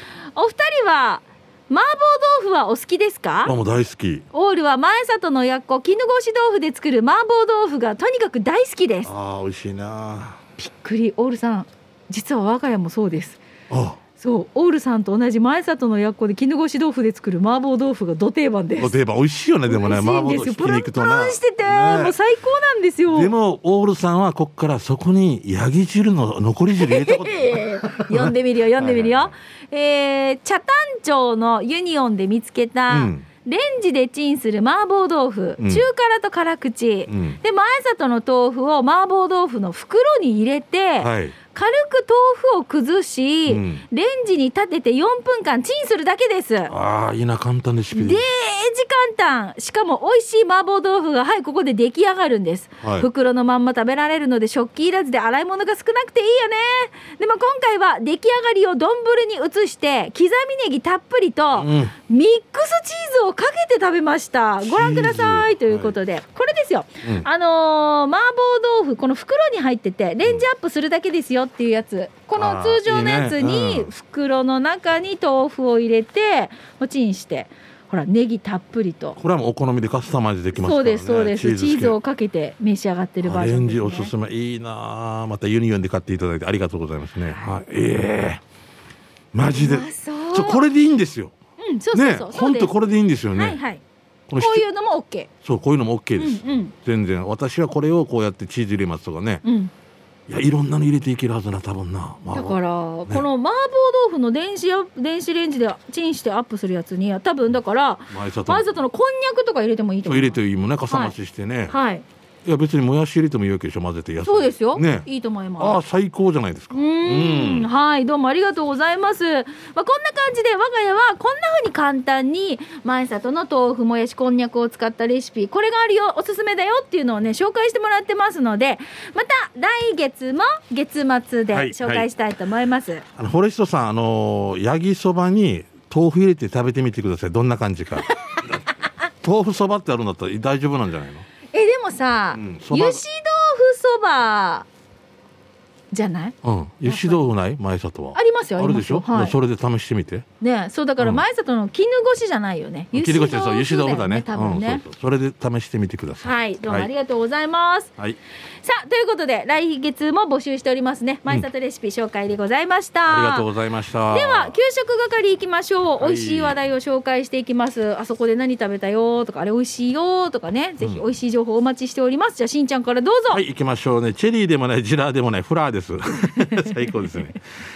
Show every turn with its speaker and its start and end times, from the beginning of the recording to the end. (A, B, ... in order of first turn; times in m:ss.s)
0:00.4-0:03.5 A
0:03.4-0:04.2 B
0:04.3-0:09.1 A
0:09.0-0:10.4 B
0:10.6-0:13.4 A
0:13.7-0:14.0 B
0:14.2-0:18.9 A
0:18.8-0:22.2 B
0:19.7-0:23.3 A
0:23.1-0:29.3 B
0:26.8-0:46.7 A
0:32.9-0:33.2 B
0:35.6-0:35.9 B
0:37.1-0:37.4 B
0:41.0-0:41.4 B
0:43.5-0:43.8 B
0:46.7-0:48.2 B
0:47.9-1:19.2 A
1:01.6-1:01.9 B
1:04.6-1:06.0 B
1:12.4-1:13.9 B
1:19.2-1:22.0 B
1:20.5-1:24.1 A
1:23.2-1:28.4 B
1:29.3-1:31.3 B
1:29.5-1:30.6 A
1:31.6-1:32.7 A
1:31.9-1:33.6 B
1:33.3-1:33.8 A
1:34.3-1:34.6 B
1:34.4-1:35.3 A
1:35.4-1:39.4 B
1:36.2-1:36.7 A
1:39.4-1:39.7 A
1:40.3-1:42.6 B
1:42.3-1:50.4 A
1:48.1-1:48.7 B
1:50.1-1:51.8 B
1:50.9-1:51.2 A
1:51.7-1:52.0 A
1:52.4-1:55.1 B
1:54.2-1:55.8 A
1:55.6-1:57.7 B
1:56.7-2:13.0 A
2:11.5-2:12.1 B
2:13.2-2:18.6 B
2:19.2-2:21.3 B
2:21.5-2:24.7 A
2:22.4-2:23.0 B
2:25.9-2:27.2 A
2:26.4-2:30.2 B
2:28.1-2:29.4 A
2:30.4-2:34.8 A
2:32.9-2:36.9 B
2:36.2-2:37.9 A
2:38.6-2:43.5 A
2:43.1-2:44.6 B
2:44.1-2:53.4 A
2:46.0-2:46.6 B
2:53.3-2:57.4 B